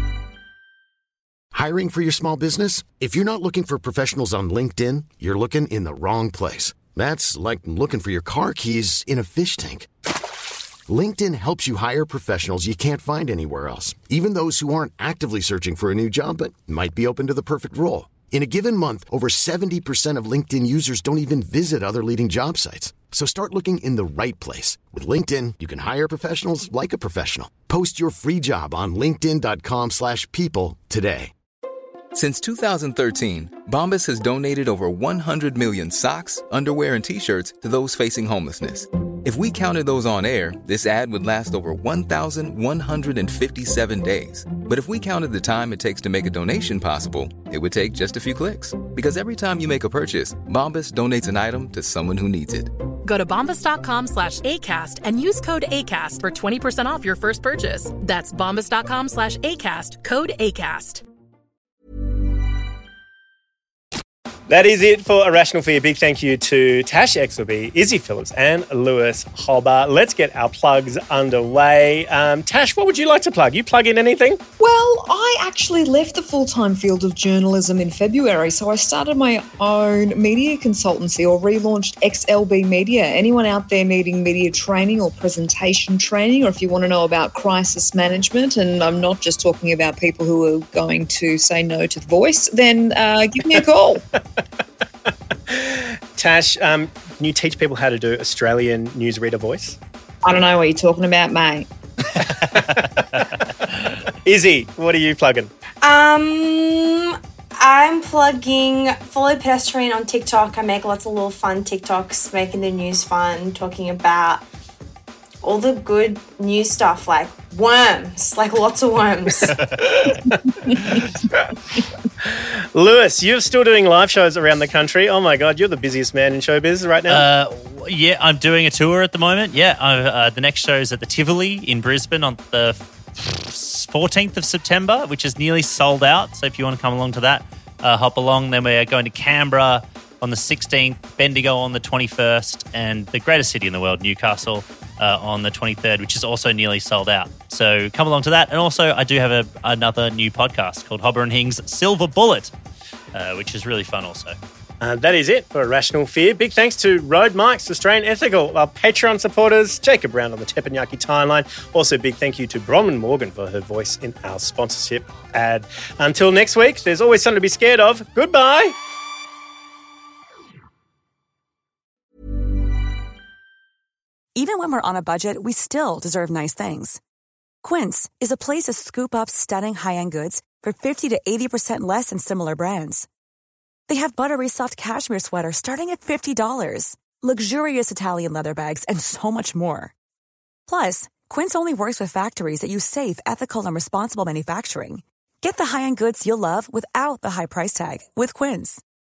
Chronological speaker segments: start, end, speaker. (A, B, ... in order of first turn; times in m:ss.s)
0:01.5-0:09.9 A
0:10.9-0:31.3 A
0:32.1-0:52.7 B
0:53.0-1:01.0 C
1:04.5-1:14.4 D
1:14.6-1:34.0 E
1:35.5-1:39.8 D
1:40.2-1:41.7 E
1:44.2-1:45.5 D
1:45.8-1:54.4 F
1:55.4-1:59.5 F
2:02.2-2:07.2 D
2:07.1-2:32.5 G
2:33.1-2:34.4 G
2:34.8-2:48.8 D
2:54.4-2:57.0 H
2:57.6-3:03.1 H
3:03.9-3:09.9 H
3:10.7-3:18.8 H